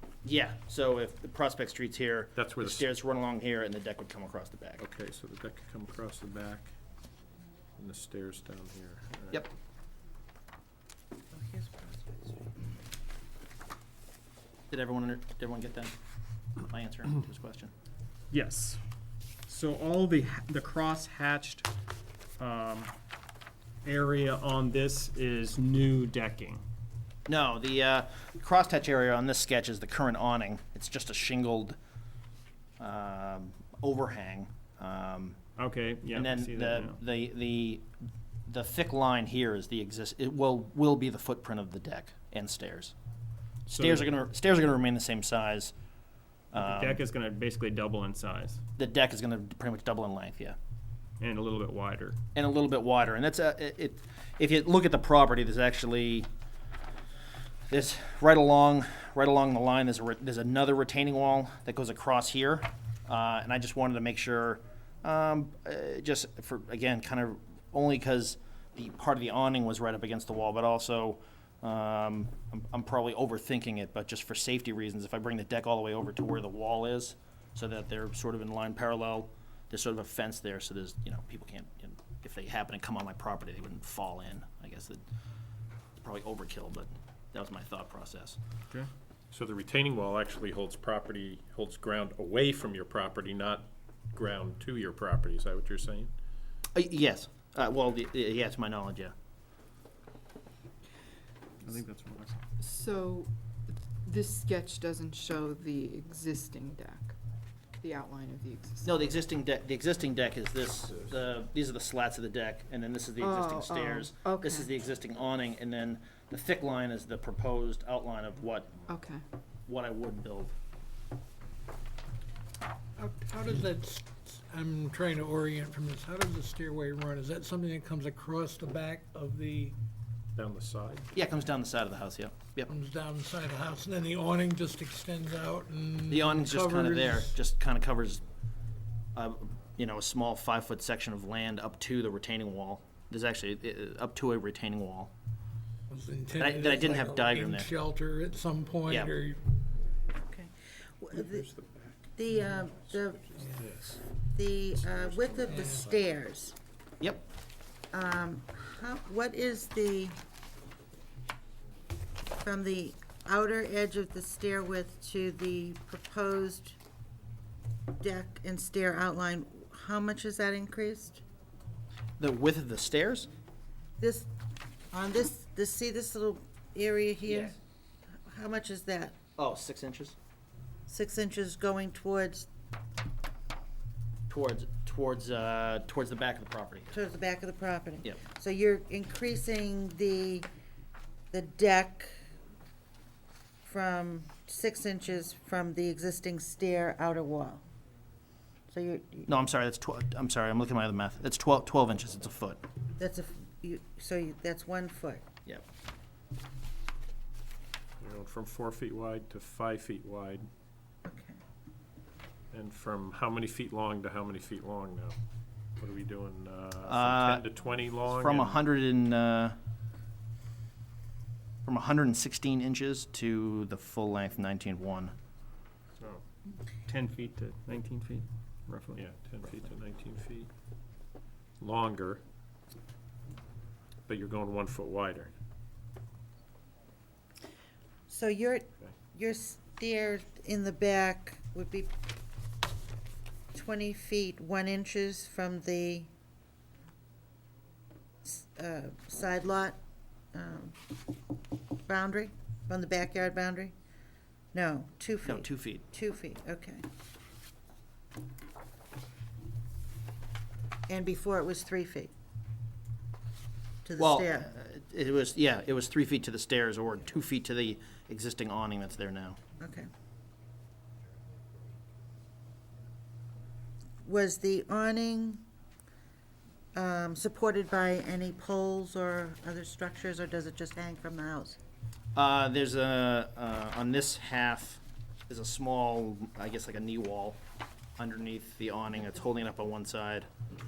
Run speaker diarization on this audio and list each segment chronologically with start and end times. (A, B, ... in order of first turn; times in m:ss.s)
0:00.2-0:04.8 A
0:02.4-0:02.8 B
0:04.8-0:06.7 B
0:07.8-0:09.5 B
0:11.3-0:12.5 C
0:14.7-0:15.9 A
0:16.6-0:17.7 A
0:18.3-0:18.8 D
0:19.5-0:21.7 D
0:22.4-0:22.9 D
0:23.8-0:26.6 D
0:27.3-0:31.8 A
0:32.8-0:35.4 A
0:35.6-0:37.0 D
0:36.1-0:37.8 A
0:38.5-0:42.9 A
0:43.7-0:44.1 D
0:43.7-0:45.7 A
0:46.5-0:47.0 A
0:46.5-0:48.6 D
0:48.8-0:50.6 A
0:51.2-0:52.2 D
0:52.3-0:56.3 A
0:57.7-1:25.0 A
1:26.0-1:28.4 A
1:29.3-1:36.1 B
1:36.7-1:39.1 A
1:41.6-1:42.4 D
1:42.6-1:47.2 E
1:47.8-1:49.1 E
1:48.8-1:58.7 A
1:53.2-1:54.7 E
1:58.9-1:59.2 E
1:59.7-2:00.5 A
2:03.0-2:09.8 F
2:10.3-2:11.1 B
2:11.1-2:12.7 A
2:12.7-2:17.3 F
2:16.1-2:18.2 A
2:19.1-2:25.1 A
2:25.9-2:29.4 F
2:26.4-2:27.7 A
2:28.9-2:29.1 A
2:30.2-2:31.5 C
2:31.2-2:31.8 B
2:32.1-2:33.4 C
2:33.1-2:34.0 B
2:33.3-2:33.8 F
2:34.3-2:36.6 C
2:35.1-2:35.5 B
2:35.4-2:36.0 F
2:37.9-2:40.1 C
2:42.4-2:46.8 C
2:48.0-2:51.2 C
2:52.2-2:53.3 A
2:54.0-2:54.3 C
2:54.9-2:57.6 C
2:57.2-2:57.6 A
2:58.2-2:59.2 C
2:59.4-3:00.2 A
3:00.9-3:02.5 C
3:04.3-3:06.9 A
3:06.9-3:10.5 C
3:11.3-3:12.2 C
3:13.6-3:17.6 C
3:18.7-3:19.3 C
3:19.3-3:22.6 A
3:23.0-3:25.2 C
3:28.0-3:30.5 B
3:31.0-3:31.4 C
3:32.5-3:35.2 B
3:35.8-3:38.6 B
3:36.9-3:37.4 A
3:38.1-3:39.6 A
3:41.6-3:45.1 A
3:46.8-3:49.0 D
3:48.9-3:50.5 B
3:51.6-3:52.2 B
3:54.1-3:55.3 B
3:58.1-4:01.9 C
4:03.5-4:06.1 C
4:08.2-4:09.8 C
4:10.3-4:10.8 C
4:11.9-4:13.7 C
4:14.5-4:16.8 C
4:15.2-4:15.8 A
4:20.9-4:22.1 C
4:23.8-4:24.5 C
4:24.0-4:29.4 A
4:29.6-4:29.9 C
4:34.0-4:35.4 C
4:36.7-4:41.6 C
4:42.1-4:47.4 A
4:48.0-4:50.3 A